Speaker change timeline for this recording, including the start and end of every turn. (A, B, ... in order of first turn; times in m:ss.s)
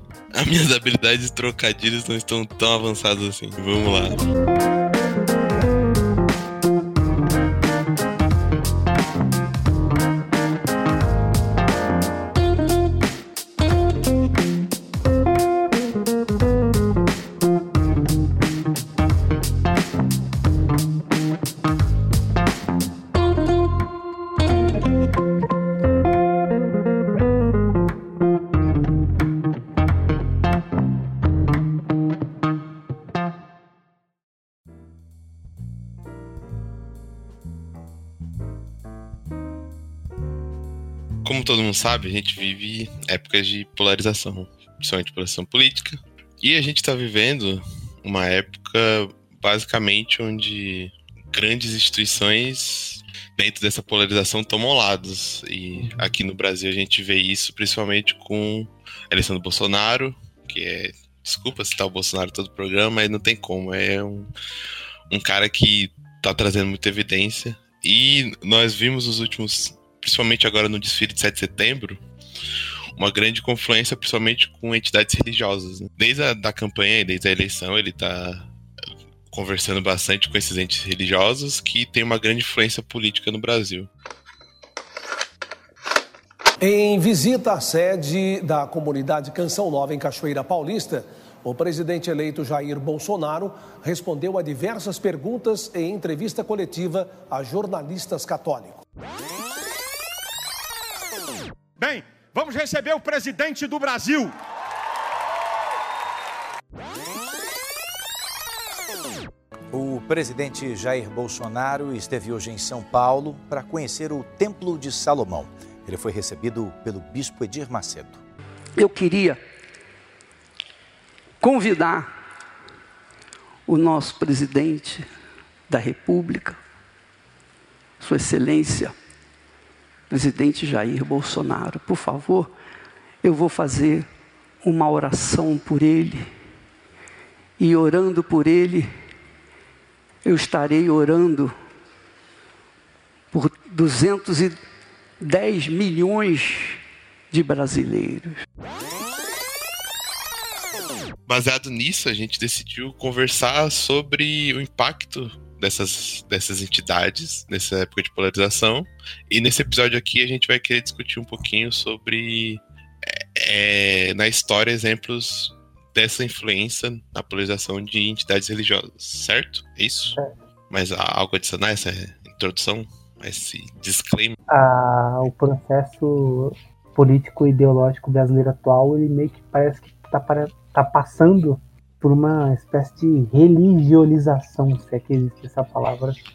0:00.3-0:04.2 A
0:41.2-1:04.3 A
0:55.8-0:56.1 B
1:05.1-1:12.0 A
1:13.0-1:18.5 A
1:19.3-1:23.9 A
1:26.6-1:38.8 C
1:41.8-1:44.3 D
1:49.7-1:58.2 E
1:58.8-1:59.4 F
2:01.4-2:02.1 F
2:03.7-2:05.1 F
2:05.7-2:06.6 F
2:08.0-2:08.9 F
2:10.1-2:12.5 F
2:13.2-2:14.0 F
2:14.6-2:16.3 F
2:17.6-2:18.9 F
2:20.2-2:21.5 F
2:23.3-2:24.6 F
2:25.2-2:26.8 F
2:27.3-2:28.4 F
2:31.3-2:50.2 A
2:50.7-2:54.4 A
2:54.5-3:06.2 B